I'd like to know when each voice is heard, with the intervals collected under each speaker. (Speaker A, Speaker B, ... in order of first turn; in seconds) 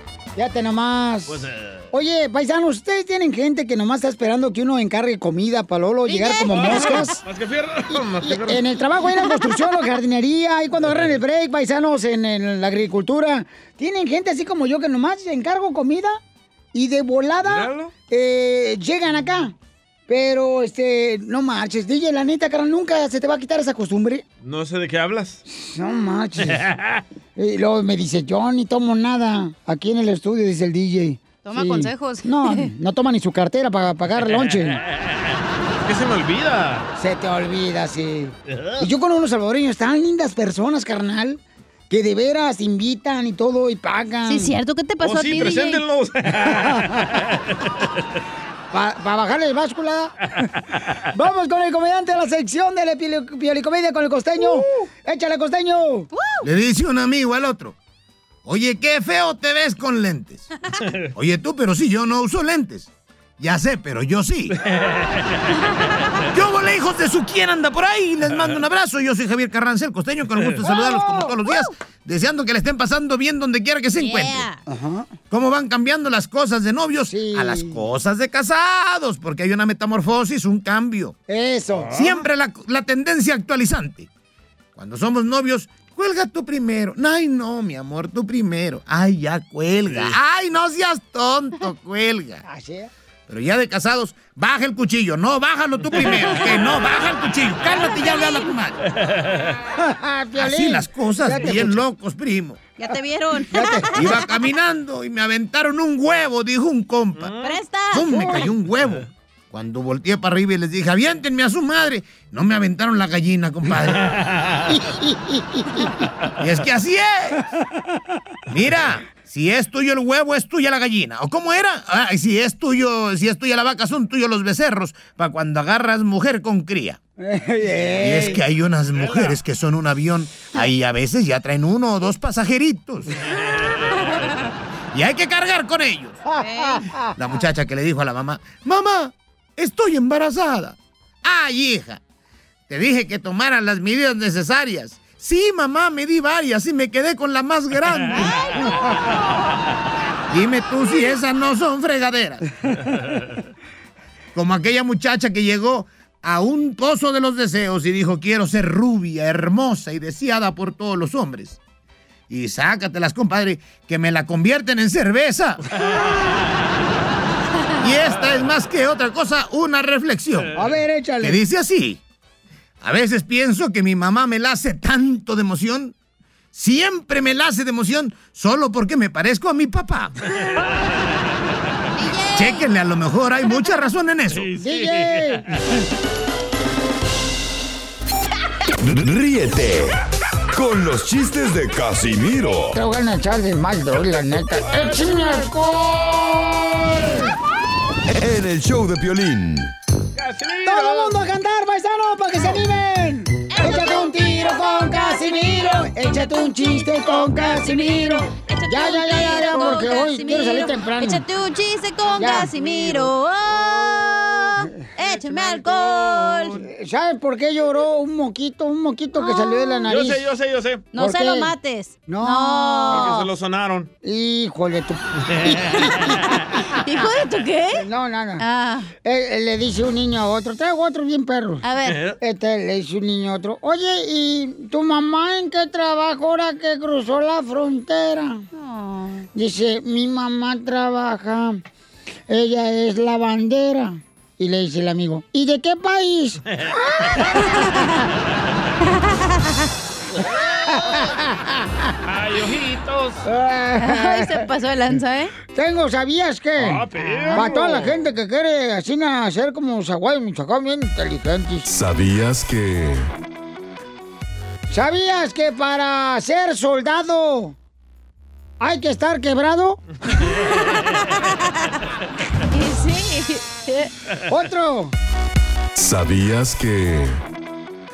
Speaker A: 0.4-1.4, 1.9-7.2, 8.2-16.2, 16.7-19.5, 20.1-24.2, 25.5-26.6, 27.4-34.8, 37.0-44.5, 46.6-46.9, 48.7-50.2, 51.1-56.1, 70.6-71.4, 74.7-75.2, 77.0-77.8, 81.3-82.2, 92.4-92.9, 99.8-101.8, 103.5-104.2, 108.0-108.5, 115.0-115.8, 127.2-128.4, 136.3-137.4, 170.6-171.4, 184.6-185.7, 192.7-197.3, 200.7-211.2, 212.2-212.5, 216.5-220.2, 221.0-221.5, 222.1-223.1, 224.0-226.1, 227.7-228.4, 229.0-231.6, 232.2-238.4, 239.3-241.6, 242.3-246.4, 250.7-251.9, 253.2-254.5, 255.5-261.7, 264.7-267.6, 268.6-269.8, 274.3-274.9
Speaker B: 1.3-1.9, 6.5-8.7, 10.8-11.1, 17.4-17.9, 24.4-25.4, 26.5-27.0, 34.2-34.6, 35.9-36.9, 38.5-38.8, 45.0-47.4, 64.7-65.4, 81.7-82.2, 107.2-107.6, 128.9-129.4, 184.4-185.6, 200.2-201.2, 212.6-213.1, 215.3-215.6, 219.9-220.9, 222.9-223.9, 225.3-226.2, 231.9-232.2, 246.5-247.2, 252.1-253.3, 256.6-258.0
Speaker C: 6.1-7.1, 31.4-32.7, 44.3-45.8, 56.1-56.4, 74.0-74.6, 97.7-98.6, 102.8-104.3, 107.4-108.2, 136.4-136.8, 148.2-148.8, 181.9-182.7, 203.5-216.7, 219.2-219.9, 220.9-223.3, 226.3-227.8, 228.4-228.9, 231.6-232.0, 238.5-239.3, 247.6-247.8, 248.9-249.2, 253.8-255.3, 257.1-257.5, 270.7-271.2, 272.5-273.9
Speaker D: 56.4-57.8, 58.5-60.5, 61.1-64.6, 66.3-74.5, 75.3-81.2, 82.0-84.1, 84.8-92.4, 93.3-98.8, 100.4-102.6, 103.9-107.3, 107.9-114.1, 116.4-117.4, 118.5-127.0, 128.0-133.1, 134.9-136.2, 137.2-142.0, 142.7-148.3, 150.3-152.4, 154.3-161.6, 162.3-165.6, 167.8-170.5, 171.2-172.0, 172.8-175.9, 176.5-180.1, 182.3-184.5, 261.7-263.1, 275.8-277.2
Speaker E: 188.8-190.0, 190.5-192.8, 198.1-199.7